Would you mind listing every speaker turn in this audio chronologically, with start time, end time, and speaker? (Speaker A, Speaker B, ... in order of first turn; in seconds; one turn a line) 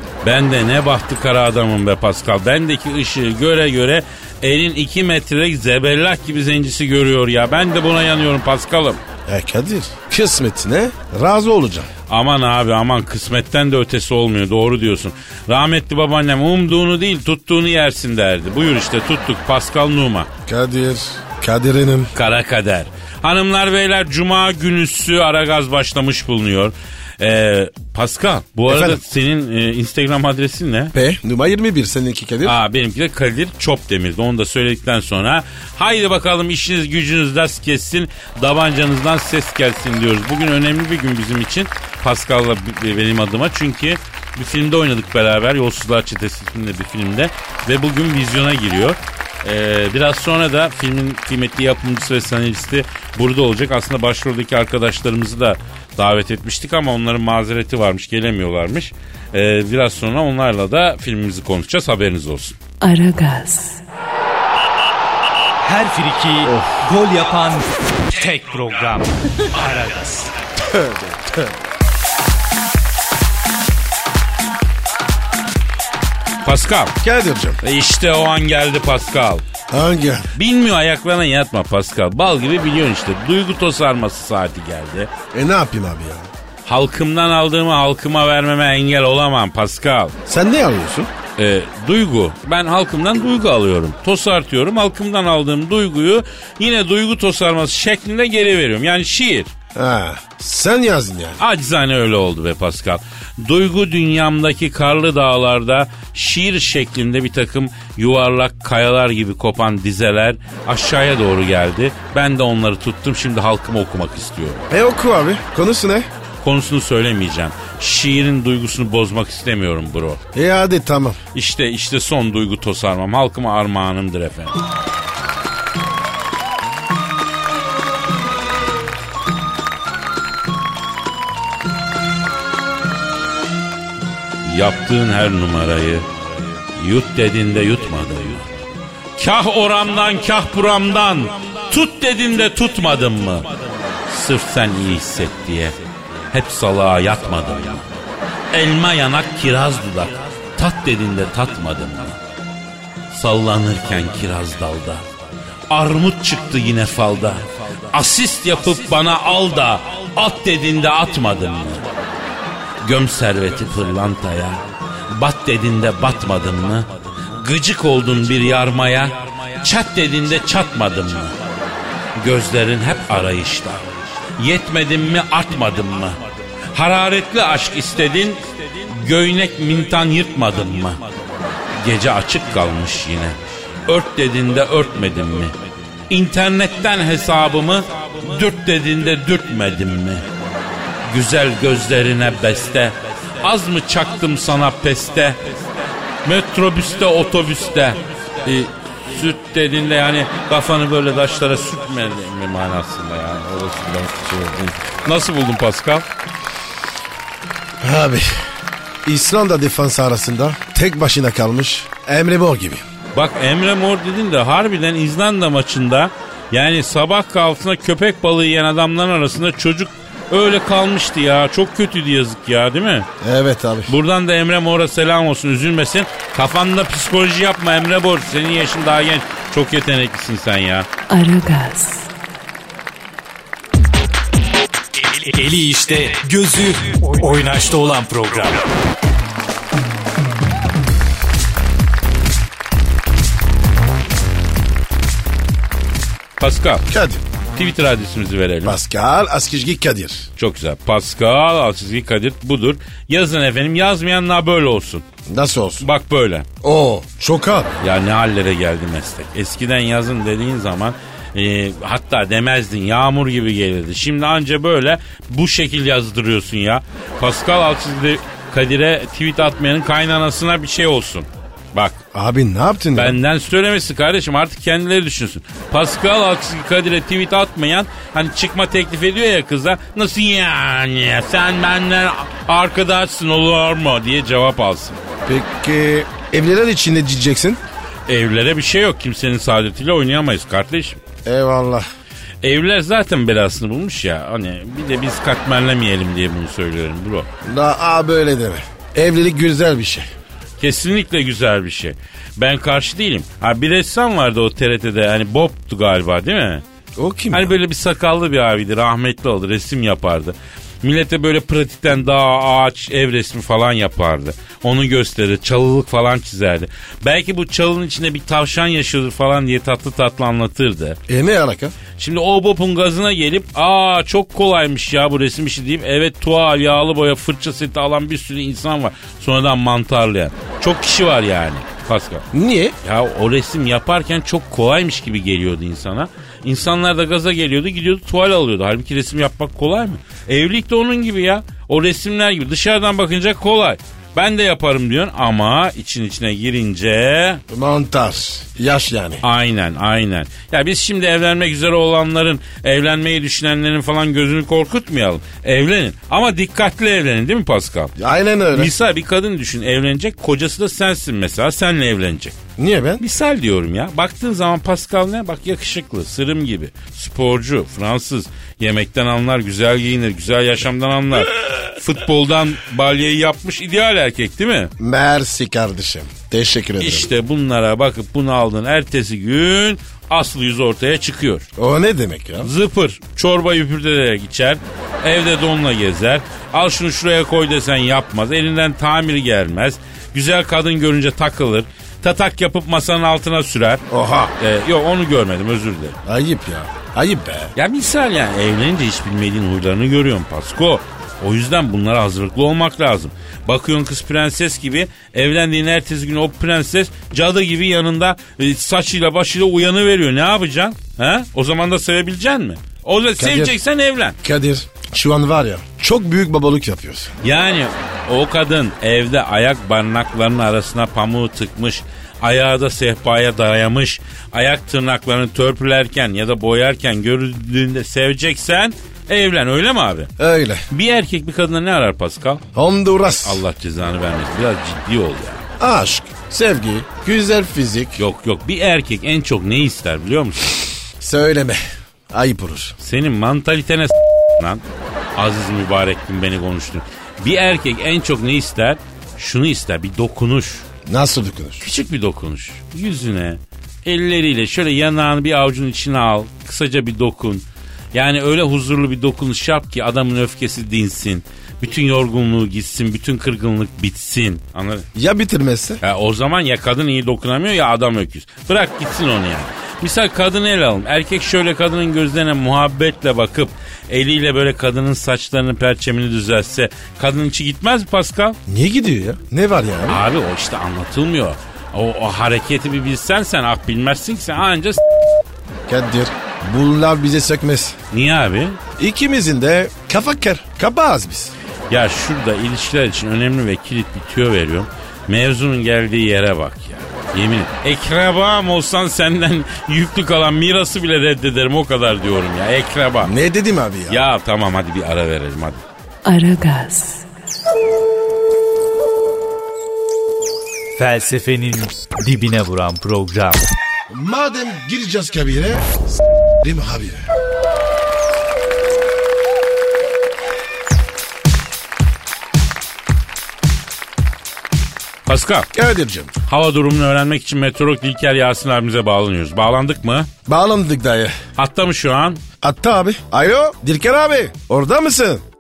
Speaker A: 0.2-9.0
Speaker B: 9.3-11.9
Speaker A: 12.1-20.3
Speaker B: 20.5-22.1
Speaker A: 22.2-30.9
Speaker B: 28.7-29.0
Speaker B: 30.9-32.6
Speaker A: 32.4-62.6
Speaker C: 62.8-63.8
Speaker D: 65.6-70.3
Speaker B: 66.5-66.8
Speaker B: 70.7-71.5
Speaker A: 76.4-77.0
Speaker B: 77.0-77.6
Speaker A: 77.6-79.5
Speaker B: 79.7-80.3
Speaker A: 80.3-85.1
Speaker B: 85.3-86.3
Speaker A: 86.7-90.2
Speaker B: 90.3-91.1
Speaker A: 91.4-99.5
Speaker B: 99.8-101.4
Speaker A: 101.4-114.7
Speaker B: 114.7-116.1
Speaker A: 116.4-120.2
Speaker B: 120.3-121.2
Speaker A: 121.3-124.6
Speaker A: 134.4-136.1
Speaker A: 136.7-138.5
Speaker A: 139.2-143.5
Speaker A: 144.1-145.8
Speaker A: 146.3-147.9
Speaker A: 148.5-152.2
Speaker A: 153.1-155.1
Speaker A: 155.7-161.9
Speaker A: 162.8-171.5
Speaker A: 172.2-173.8
Speaker A: 174.4-176.2
Speaker A: 176.7-181.1
Speaker A: 181.7-185.6
Speaker A: 186.1-190.3
Speaker A: 191.1-206.1
Speaker B: 207.8-208.3
Speaker B: 209.1-212.8
Speaker A: 213.1-223.1
Speaker B: 223.2-223.9
Speaker A: 223.9-230.9
Speaker C: 231.1-232.1
Speaker D: 234.9-238.7
Speaker A: 246.4-246.9
Speaker B: 246.9-247.2
Speaker A: 247.6-248.8
Speaker B: 248.7-250.3
Speaker A: 250.4-255.0
Speaker B: 255.3-255.9
Speaker A: 255.8-256.5
Speaker B: 256.6-257.8
Speaker A: 257.8-272.0
Speaker B: 272.1-273.2
Speaker A: 272.9-285.0
Speaker B: 285.2-287.6
Speaker A: 288.1-291.0
Speaker B: 291.2-291.9
Speaker A: 292.4-297.3
Speaker B: 297.4-300.1
Speaker A: 300.6-306.6
Speaker B: 307.0-307.6
Speaker A: 307.3-321.0
Speaker B: 321.1-321.8
Speaker A: 322.0-332.2
Speaker B: 332.3-332.8
Speaker A: 332.8-347.4
Speaker B: 347.5-349.2
Speaker A: 349.2-357.9
Speaker B: 358.0-358.7
Speaker A: 358.5-362.4
Speaker B: 362.6-363.0
Speaker A: 363.0-374.7
Speaker B: 374.8-377.1
Speaker A: 376.8-381.4
Speaker B: 381.6-382.5
Speaker A: 382.4-393.8
Speaker B: 393.9-394.3
Speaker A: 394.4-396.0
Speaker B: 396.1-397.5
Speaker A: 397.6-414.2
Speaker B: 413.2-413.6
Speaker B: 414.2-417.1
Speaker A: 417.2-430.1
Speaker B: 430.2-430.6
Speaker A: 430.7-432.4
Speaker B: 432.5-433.4
Speaker A: 433.2-435.4
Speaker B: 435.6-438.0
Speaker A: 438.0-440.6
Speaker B: 441.0-441.6
Speaker B: 442.1-442.8
Speaker A: 442.8-444.6
Speaker A: 445.2-450.6
Speaker B: 450.9-451.6
Speaker A: 451.6-464.9
Speaker B: 464.9-465.8
Speaker A: 465.8-478.4
Speaker B: 478.5-480.0
Speaker A: 479.9-484.8
Speaker B: 485.7-487.8
Speaker A: 487.9-488.6
Speaker B: 488.8-491.3
Speaker A: 491.7-503.1
Speaker B: 503.0-504.0
Speaker A: 503.9-505.6
Speaker C: 506.1-507.1
Speaker D: 510.8-513.4
Speaker B: 513.9-515.8
Speaker B: 516.4-517.0
Speaker A: 525.1-525.5
Speaker B: 525.5-526.1
Speaker A: 526.3-530.1
Speaker B: 530.3-531.2
Speaker A: 531.4-532.2
Speaker B: 532.4-535.2